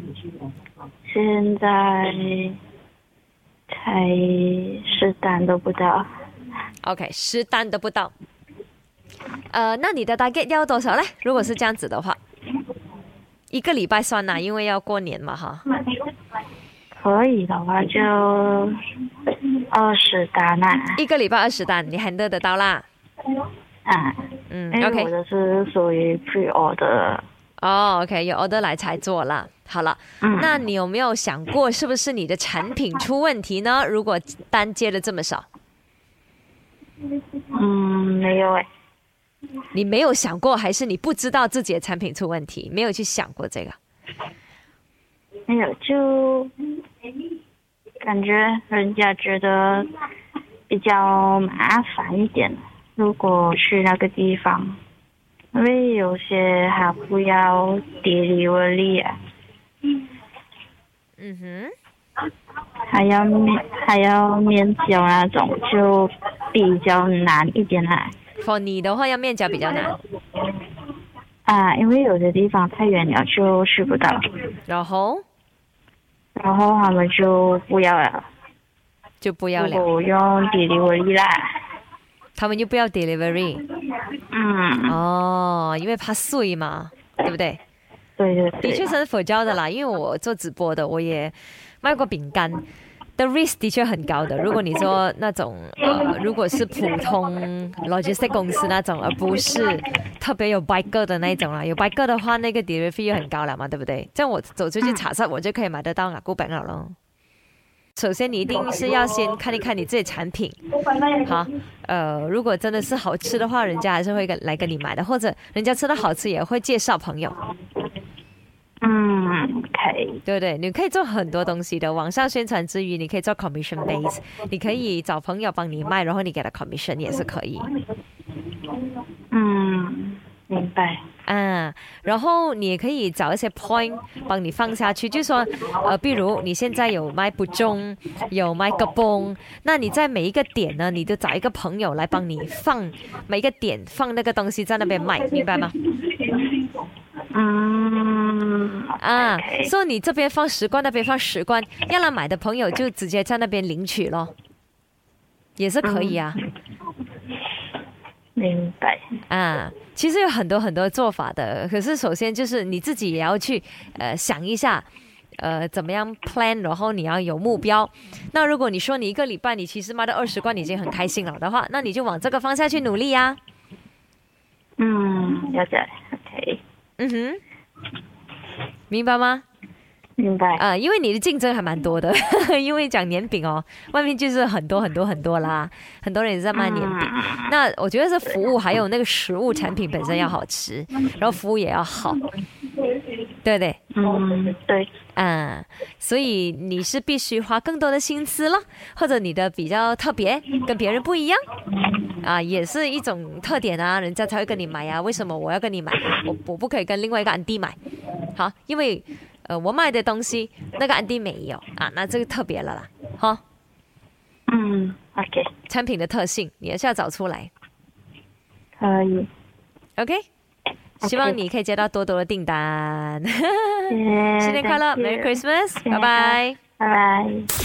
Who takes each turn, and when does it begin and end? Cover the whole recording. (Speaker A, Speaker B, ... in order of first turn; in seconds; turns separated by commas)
Speaker A: 1.1-2.6, Speaker A: 3.7-6.0, Speaker B: 6.8-8.1, Speaker B: 9.5-12.2, Speaker B: 13.5-15.6, Speaker A: 16.9-18.7, Speaker A: 19.7-21.0, Speaker B: 20.9-22.8, Speaker A: 23.9-27.2, Speaker B: 24.5-25.1, Speaker B: 27.6-35.5, Speaker A: 30.2-30.6, Speaker A: 37.5-38.7, Speaker B: 39.7-43.8, Speaker A: 45.5-46.5, Speaker A: 48.0-49.9, Speaker A: 50.7-54.8, Speaker A: 55.5-59.1, Speaker B: 61.2-61.7, Speaker A: 62.9-68.1, Speaker B: 68.4-69.9, Speaker A: 71.5-74.2, Speaker B: 74.7-75.2, Speaker A: 76.4-78.2, Speaker B: 79.2-79.8, Speaker A: 79.5-81.4, Speaker B: 82.4-83.6, Speaker A: 84.3-85.0, Speaker B: 84.8-87.6, Speaker A: 88.2-88.9, Speaker B: 88.6-92.7, Speaker B: 93.2-106.9, Speaker B: 108.0-110.6, Speaker B: 111.1-117.4, Speaker A: 118.8-120.2, Speaker B: 120.2-127.7, Speaker A: 129.3-131.0, Speaker B: 131.2-145.8, Speaker A: 147.3-149.7, Speaker B: 149.0-154.3, Speaker B: 155.6-156.4, Speaker A: 155.8-156.2, Speaker A: 158.3-159.0, Speaker B: 159.3-164.8, Speaker B: 165.4-173.4, Speaker A: 174.8-176.6, Speaker B: 177.0-177.4, Speaker B: 178.9-179.4, Speaker A: 180.2-180.6, Speaker B: 180.6-192.2, Speaker A: 186.5-187.5, Speaker B: 193.4-193.8, Speaker A: 193.9-194.9, Speaker B: 195.1-201.4, Speaker B: 202.2-207.8, Speaker B: 208.3-213.4, Speaker A: 214.5-215.5, Speaker B: 215.7-217.5, Speaker A: 218.8-219.3, Speaker B: 220.0-220.2, Speaker B: 221.0-226.6, Speaker A: 221.0-221.3, Speaker A: 223.9-227.5